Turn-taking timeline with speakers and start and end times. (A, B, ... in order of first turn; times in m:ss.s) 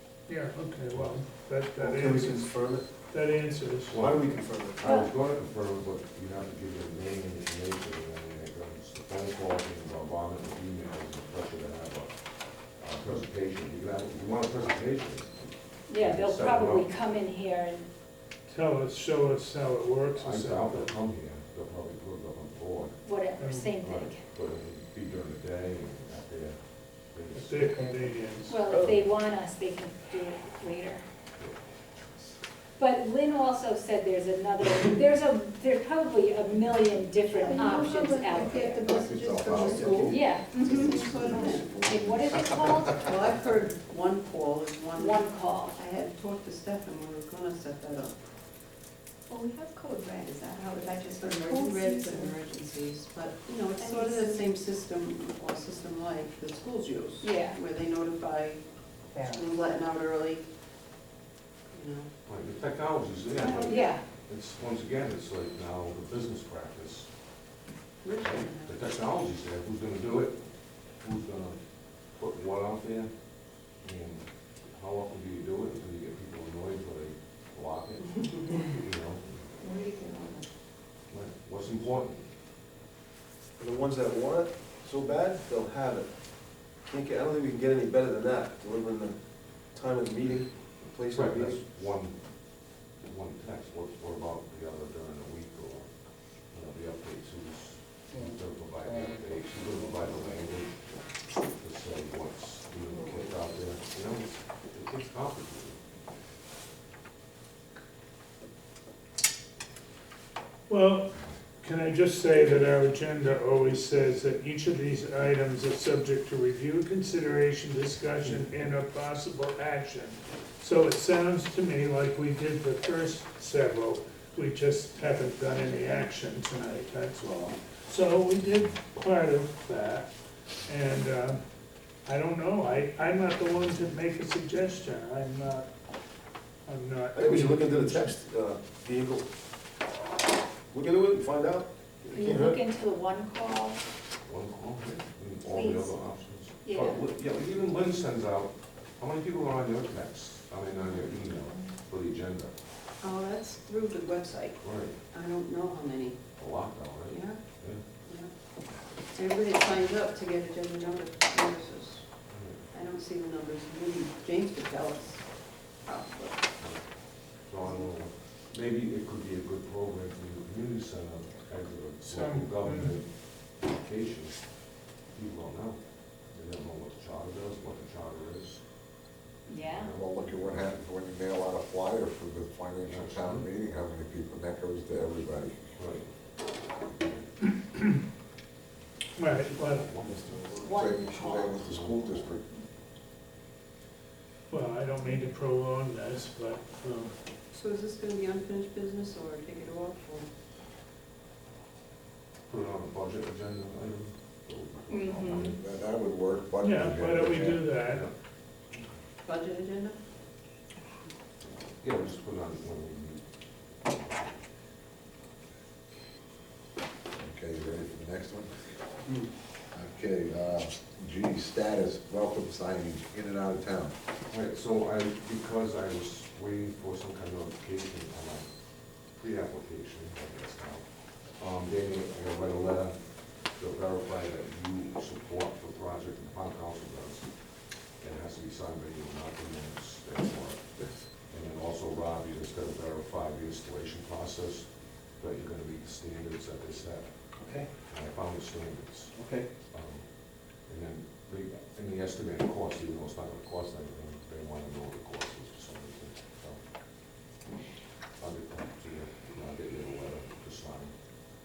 0:00.3-0:04.1 A
0:00.9-0:04.8 B
0:04.8-0:16.9 C
0:04.8-0:05.1 D
0:15.9-0:17.9 D
0:18.5-0:21.0 A
0:20.2-0:23.1 C
0:23.0-0:24.2 D
0:23.4-0:23.8 A
0:23.8-0:27.9 C
0:27.3-0:28.7 A
0:27.8-0:28.2 E
0:28.5-0:31.0 D
0:28.7-0:29.0 B
0:32.8-0:38.9 D
0:37.4-0:41.8 F
0:38.1-0:43.0 G
0:38.6-0:39.9 E
0:40.0-0:40.9 D
0:41.8-0:43.1 D
0:42.9-0:48.3 F
0:45.0-0:45.7 D
0:49.3-0:52.4 E
0:50.6-1:00.5 F
0:53.8-0:54.4 E
0:57.2-0:57.6 D
0:59.2-0:59.4 E
1:01.7-1:02.1 F
1:02.2-1:07.3 C
1:03.4-1:04.0 D
1:08.0-1:08.8 F
1:08.2-1:19.4 C
1:21.1-1:22.3 C
1:23.6-1:31.6 B
1:31.1-1:45.8 C
1:50.7-2:11.4 A
2:12.1-2:15.7 A
2:16.6-2:18.2 A
2:17.1-2:19.3 B
2:20.7-2:22.6 B
2:22.1-2:23.8 D
2:24.2-2:32.5 C
2:25.5-2:27.0 D
2:33.0-2:47.0 F
2:34.6-2:35.0 C
2:36.4-2:37.8 C
2:42.3-2:42.6 C
2:46.6-2:58.7 C
2:47.6-2:47.9 F
2:52.0-2:53.0 A
2:59.4-2:59.9 D
2:59.6-3:00.8 C
2:59.9-3:05.8 G
3:02.8-3:03.5 C
3:05.8-3:07.3 C
3:09.2-3:09.9 A
3:09.2-3:12.4 C
3:10.0-3:12.4 G
3:10.6-3:11.6 D
3:14.5-3:17.1 A
3:17.5-3:20.3 F
3:22.5-3:25.6 C
3:24.9-3:25.6 D
3:25.1-3:27.7 G
3:26.6-3:28.1 A
3:27.7-3:28.1 C
3:29.2-3:30.0 F
3:31.6-3:34.4 C
3:37.1-3:38.7 G
3:39.7-3:44.0 G
3:44.3-4:17.0 C
4:07.4-4:07.7 B
4:09.1-4:09.5 B
4:18.2-4:20.9 C